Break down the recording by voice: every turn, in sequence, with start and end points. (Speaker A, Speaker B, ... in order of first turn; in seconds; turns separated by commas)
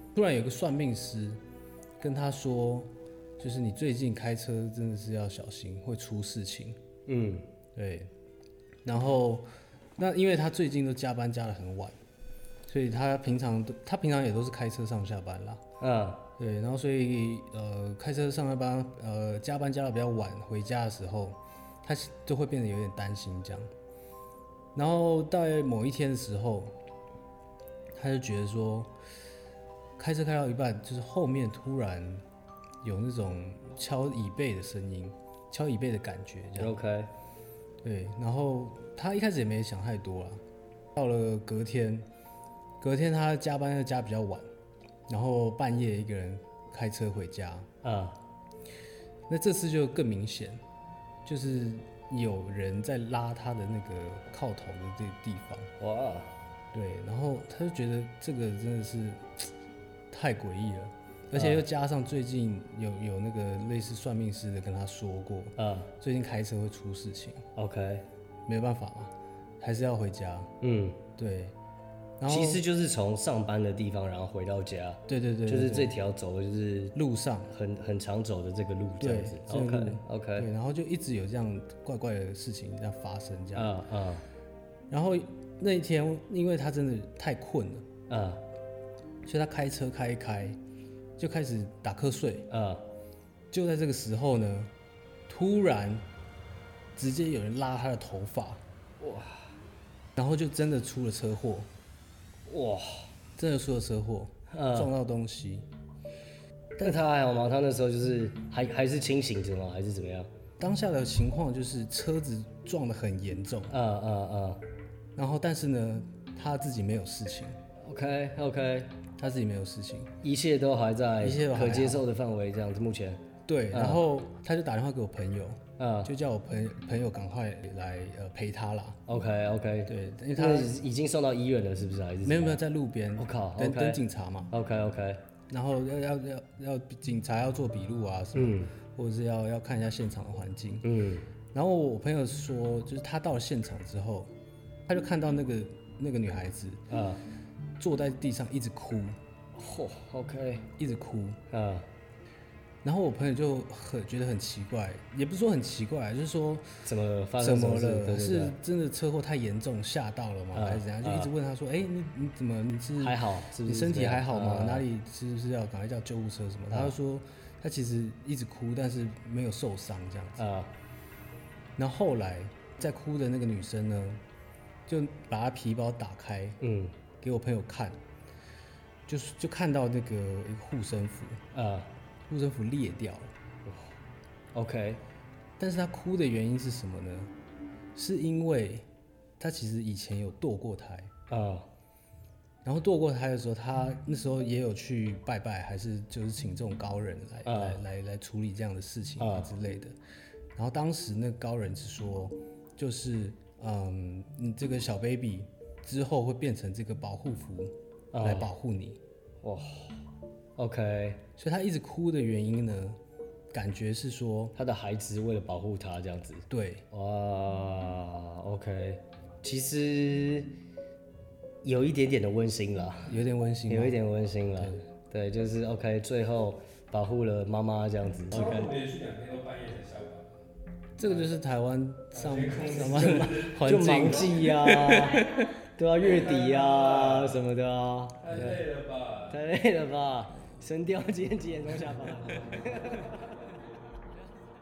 Speaker A: 0.1-1.4, Speaker A: 2.0-6.8, Speaker B: 7.1-7.5, Speaker A: 7.8-8.1, Speaker A: 8.8-12.0, Speaker A: 12.7-15.6, Speaker B: 15.8-16.2, Speaker A: 16.4-23.7, Speaker A: 24.8-26.8, Speaker A: 27.9-28.9, Speaker A: 30.0-32.2, Speaker A: 32.8-36.8, Speaker B: 36.6-37.1, Speaker A: 37.8-40.4, Speaker A: 41.0-42.1, Speaker A: 42.8-44.5, Speaker A: 45.1-47.7, Speaker B: 47.8-48.2, Speaker A: 49.3-50.6, Speaker A: 51.2-55.7, Speaker B: 55.8-56.3, Speaker A: 56.7-59.5, Speaker A: 60.1-67.5, Speaker B: 61.4-61.6, Speaker B: 65.6-65.9, Speaker B: 67.6-68.0, Speaker A: 68.5-70.5, Speaker B: 70.6-71.0, Speaker A: 71.2-71.5, Speaker A: 72.2-72.6, Speaker B: 72.3-77.0, Speaker A: 75.1-76.0, Speaker A: 77.0-77.5, Speaker B: 77.5-80.5, Speaker A: 79.0-83.7, Speaker B: 83.5-84.2, Speaker A: 84.9-87.9, Speaker B: 88.1-88.4, Speaker A: 89.2-90.6, Speaker A: 91.2-92.5, Speaker B: 92.5-92.8, Speaker A: 93.5-94.7, Speaker A: 95.3-96.0, Speaker A: 97.0-98.6, Speaker B: 99.0-99.5, Speaker A: 100.2-101.7, Speaker B: 102.5-103.1, Speaker A: 103.4-105.7, Speaker B: 104.5-104.9, Speaker A: 106.8-107.0, Speaker B: 106.8-110.3, Speaker A: 110.6-113.8, Speaker B: 113.7-114.6, Speaker A: 115.2-117.6, Speaker B: 117.8-119.0, Speaker A: 119.2-120.2, Speaker B: 120.2-124.0, Speaker A: 121.2-122.1, Speaker A: 123.5-129.0, Speaker B: 125.8-126.1, Speaker B: 129.1-132.6, Speaker A: 129.9-130.8, Speaker A: 132.2-134.5, Speaker B: 133.2-135.2, Speaker A: 135.5-140.9, Speaker B: 138.3-138.7, Speaker B: 140.8-141.3, Speaker A: 141.5-144.3, Speaker A: 144.9-146.8, Speaker B: 146.9-147.2, Speaker A: 147.8-149.2, Speaker B: 149.6-150.7, Speaker A: 150.8-151.4, Speaker B: 151.5-151.9, Speaker A: 152.8-156.7, Speaker B: 156.8-158.6, Speaker A: 157.4-170.4, Speaker B: 160.5-161.3, Speaker B: 163.0-164.9, Speaker B: 170.4-170.7, Speaker A: 171.8-174.2, Speaker A: 174.9-176.6, Speaker B: 176.6-176.9, Speaker A: 177.2-178.0, Speaker A: 179.1-181.4, Speaker B: 181.5-181.9, Speaker A: 182.3-183.3, Speaker B: 184.5-185.0, Speaker A: 185.6-187.3, Speaker A: 187.9-188.9, Speaker A: 189.4-191.1, Speaker B: 191.3-191.7, Speaker A: 192.6-199.9, Speaker B: 197.4-197.8, Speaker B: 199.2-199.5, Speaker A: 200.6-209.0, Speaker B: 208.1-208.5, Speaker B: 209.4-210.0, Speaker B: 210.6-211.2, Speaker A: 211.4-213.0, Speaker A: 213.5-214.6, Speaker B: 214.6-220.5, Speaker A: 216.5-216.8, Speaker B: 221.6-223.1, Speaker A: 223.1-224.0, Speaker B: 223.7-228.7, Speaker C: 228.3-230.3, Speaker A: 231.0-235.5, Speaker C: 232.1-234.5, Speaker B: 233.0-238.6, Speaker C: 236.0-237.5, Speaker C: 238.2-239.4, Speaker B: 239.3-243.3, Speaker C: 242.4-243.9